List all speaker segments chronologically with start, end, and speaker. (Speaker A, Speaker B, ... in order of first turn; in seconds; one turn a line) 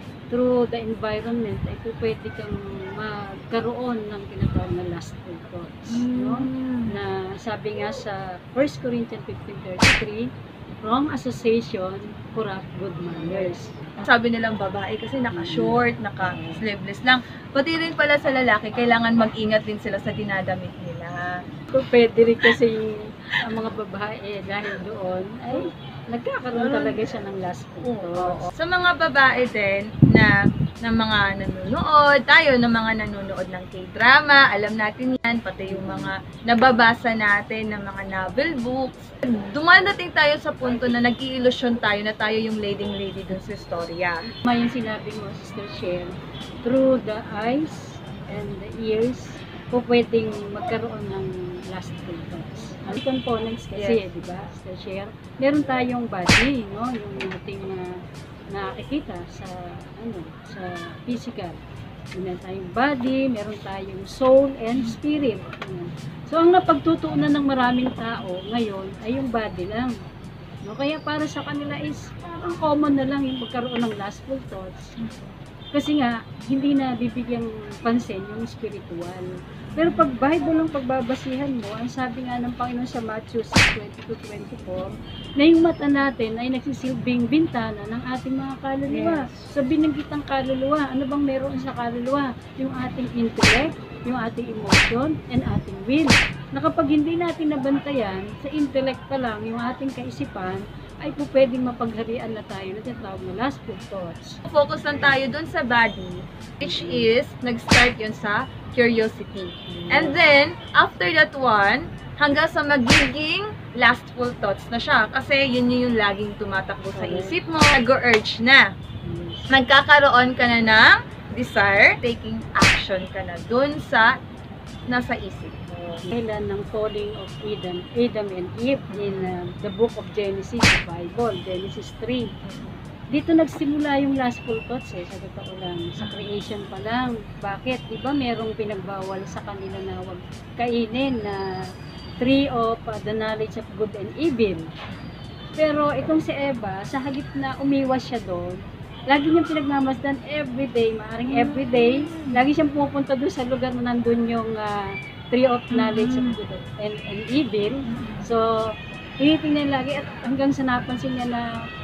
Speaker A: 0.3-10.2
Speaker B: 5.9-7.0
Speaker A: 10.8-13.7
Speaker B: 13.2-21.3
Speaker A: 15.3-16.6
Speaker A: 21.7-28.5
Speaker B: 26.6-27.0
Speaker B: 27.8-30.3
Speaker B: 30.8-44.2
Speaker A: 35.7-36.1
Speaker A: 44.4-46.1
Speaker A: 46.6-57.9
Speaker B: 53.8-54.0
Speaker A: 58.5-61.6
Speaker A: 62.2-69.9
Speaker A: 70.7-74.9
Speaker B: 75.0-75.4
Speaker A: 75.7-79.3
Speaker B: 79.8-80.1
Speaker A: 79.8-104.4
Speaker B: 88.9-89.5
Speaker B: 104.5-118.7
Speaker A: 106.7-107.1
Speaker A: 109.7-110.2
Speaker A: 117.0-117.3
Speaker A: 119.0-119.5
Speaker B: 119.5-124.2
Speaker B: 124.9-126.0
Speaker A: 126.1-132.3
Speaker B: 128.9-129.3
Speaker B: 132.4-132.8
Speaker A: 133.1-141.4
Speaker B: 136.0-136.3
Speaker A: 142.2-144.6
Speaker A: 145.6-148.6
Speaker A: 149.1-154.8
Speaker B: 151.3-152.4
Speaker A: 155.3-158.5
Speaker B: 155.7-156.4
Speaker B: 157.9-158.3
Speaker A: 159.2-161.5